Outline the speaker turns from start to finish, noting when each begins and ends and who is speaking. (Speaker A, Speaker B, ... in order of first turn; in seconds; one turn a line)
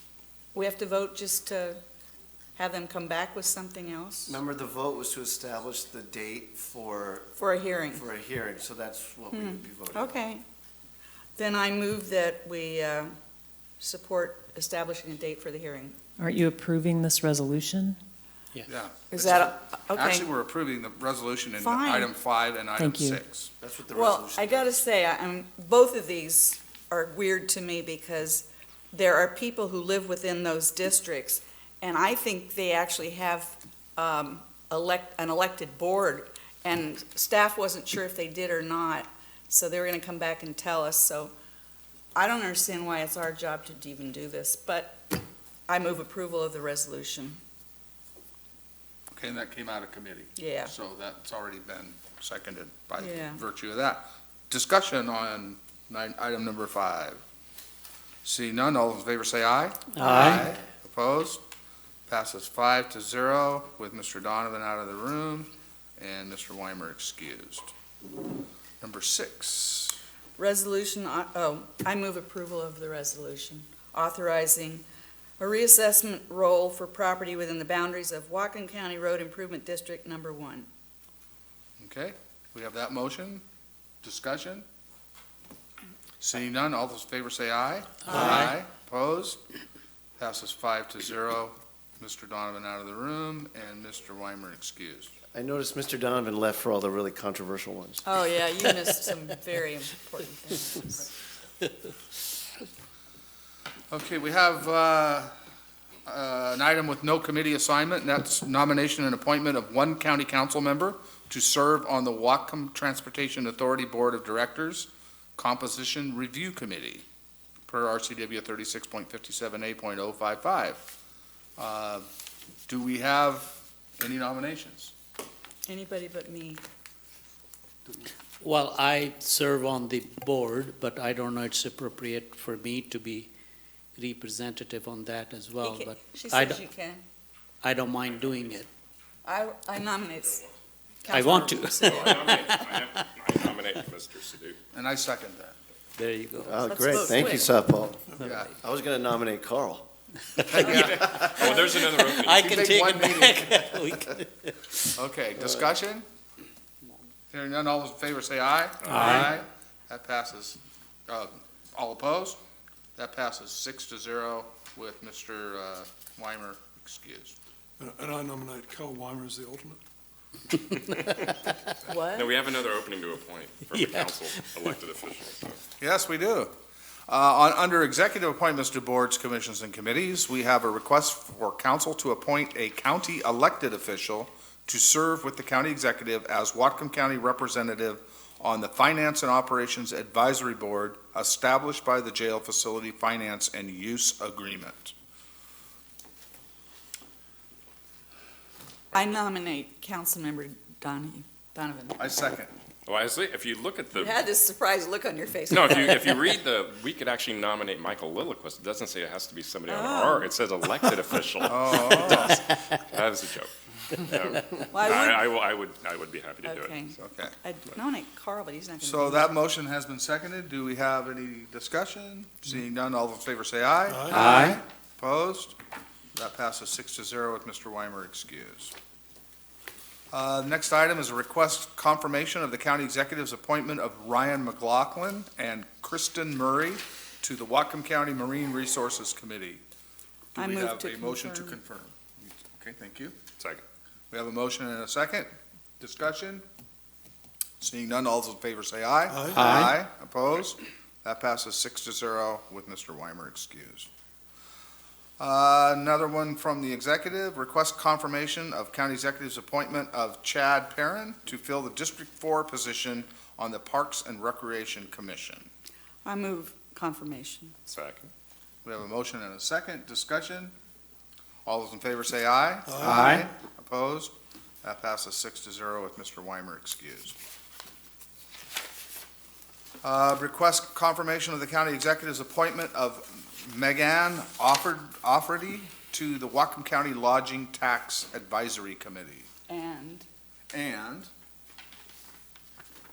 Speaker A: 0.5-1.8
Speaker A: 2.5-4.3
Speaker B: 4.3-10.2
Speaker A: 7.4-8.0
Speaker A: 9.3-10.4
Speaker A: 11.4-13.1
Speaker A: 13.8-15.9
Speaker C: 16.2-18.0
Speaker D: 18.7-23.5
Speaker A: 19.1-20.3
Speaker A: 21.6-22.1
Speaker C: 22.8-23.2
Speaker B: 23.6-24.8
Speaker A: 23.9-41.3
Speaker A: 42.1-45.1
Speaker A: 45.7-47.4
Speaker D: 49.1-57.2
Speaker A: 50.4-50.7
Speaker A: 53.0-53.4
Speaker D: 58.2-61.4
Speaker E: 60.0-60.5
Speaker A: 60.0-60.4
Speaker D: 62.1-67.7
Speaker D: 68.8-70.0
Speaker A: 70.4-74.8
Speaker A: 75.4-80.7
Speaker D: 81.8-83.4
Speaker D: 84.0-84.6
Speaker D: 86.2-89.4
Speaker E: 88.1-88.6
Speaker D: 90.2-95.1
Speaker B: 95.3-98.0
Speaker A: 98.0-101.1
Speaker D: 103.9-105.3
Speaker D: 106.0-117.0
Speaker D: 117.7-120.8
Speaker D: 121.6-122.0
Speaker D: 122.7-124.9
Speaker A: 125.7-126.6
Speaker E: 128.4-133.3
Speaker E: 133.9-136.6
Speaker A: 135.6-137.0
Speaker E: 137.6-138.7
Speaker A: 139.2-140.5
Speaker A: 141.0-142.8
Speaker E: 141.1-142.2
Speaker F: 141.8-144.6
Speaker D: 144.7-145.6
Speaker E: 146.0-147.2
Speaker B: 146.4-149.9
Speaker A: 146.7-147.5
Speaker D: 148.2-148.5
Speaker E: 150.4-151.1
Speaker D: 150.4-151.4
Speaker F: 150.7-152.5
Speaker A: 151.3-151.8
Speaker E: 151.9-154.9
Speaker D: 152.3-153.8
Speaker D: 154.9-156.1
Speaker D: 157.3-162.4
Speaker F: 158.8-159.2
Speaker E: 158.9-159.3
Speaker A: 158.9-159.3
Speaker D: 162.9-167.3
Speaker G: 167.8-169.8
Speaker A: 171.8-172.3
Speaker F: 172.1-175.6
Speaker D: 175.8-176.5
Speaker D: 177.1-194.9
Speaker A: 198.9-202.0
Speaker D: 202.0-202.5
Speaker F: 202.8-204.2
Speaker A: 203.9-206.3
Speaker F: 205.5-216.8
Speaker A: 209.7-210.3
Speaker D: 211.4-212.4
Speaker A: 214.7-215.3
Speaker A: 216.4-219.3
Speaker D: 217.0-217.3
Speaker D: 218.8-225.6
Speaker G: 223.9-224.2
Speaker E: 224.1-224.6
Speaker D: 226.1-228.7
Speaker D: 230.1-239.6
Speaker D: 240.3-243.1
Speaker A: 240.3-241.6
Speaker D: 244.1-246.4
Speaker D: 247.6-253.9
Speaker G: 249.1-249.4
Speaker E: 249.3-249.7
Speaker D: 255.2-265.5
Speaker A: 266.0-267.5
Speaker F: 267.7-268.1
Speaker D: 268.6-270.5
Speaker D: 271.4-274.1
Speaker G: 272.7-273.2
Speaker D: 274.6-277.1
Speaker D: 279.8-289.3
Speaker A: 289.5-290.1
Speaker D: 290.5-291.1